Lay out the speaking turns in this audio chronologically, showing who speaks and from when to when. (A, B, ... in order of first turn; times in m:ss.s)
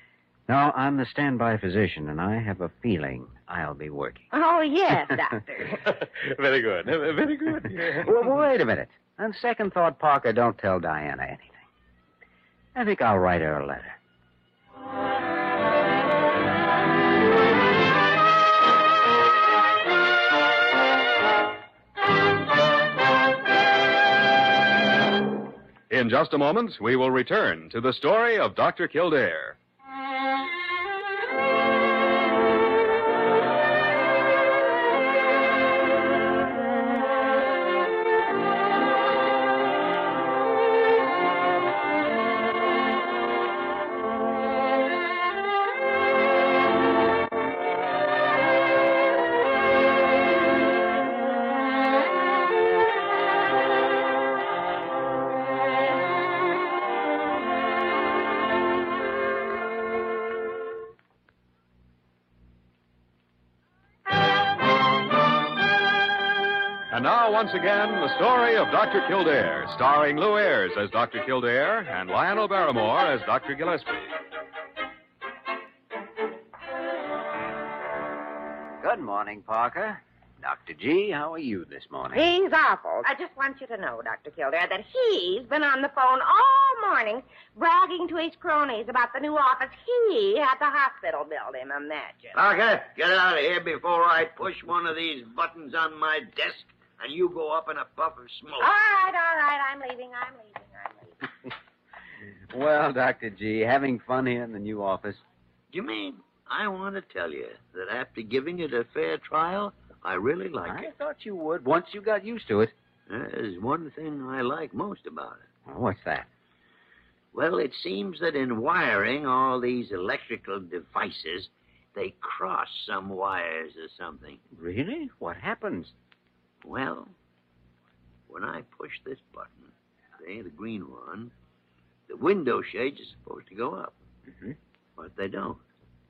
0:00.5-0:04.3 A
0:04.3-0:05.8 B
0:05.8-0:08.1 C
0:07.8-0:11.6 A
0:12.8-0:14.0 A
0:25.9-0:29.6 D
1:06.9-1:14.1 D
1:18.8-1:22.3 A
1:22.1-1:32.4 B
1:32.3-1:38.7 E
1:38.6-1:41.2 B
1:42.5-1:45.2 A
1:45.7-1:50.9 E
1:50.6-1:52.7 A
1:53.1-1:55.4 E
1:55.7-1:56.3 A
1:57.3-2:04.4 E
2:04.5-2:05.9 A
2:06.6-2:07.1 E
2:08.3-2:11.3 E
2:12.1-2:14.0 E
2:15.0-2:15.6 E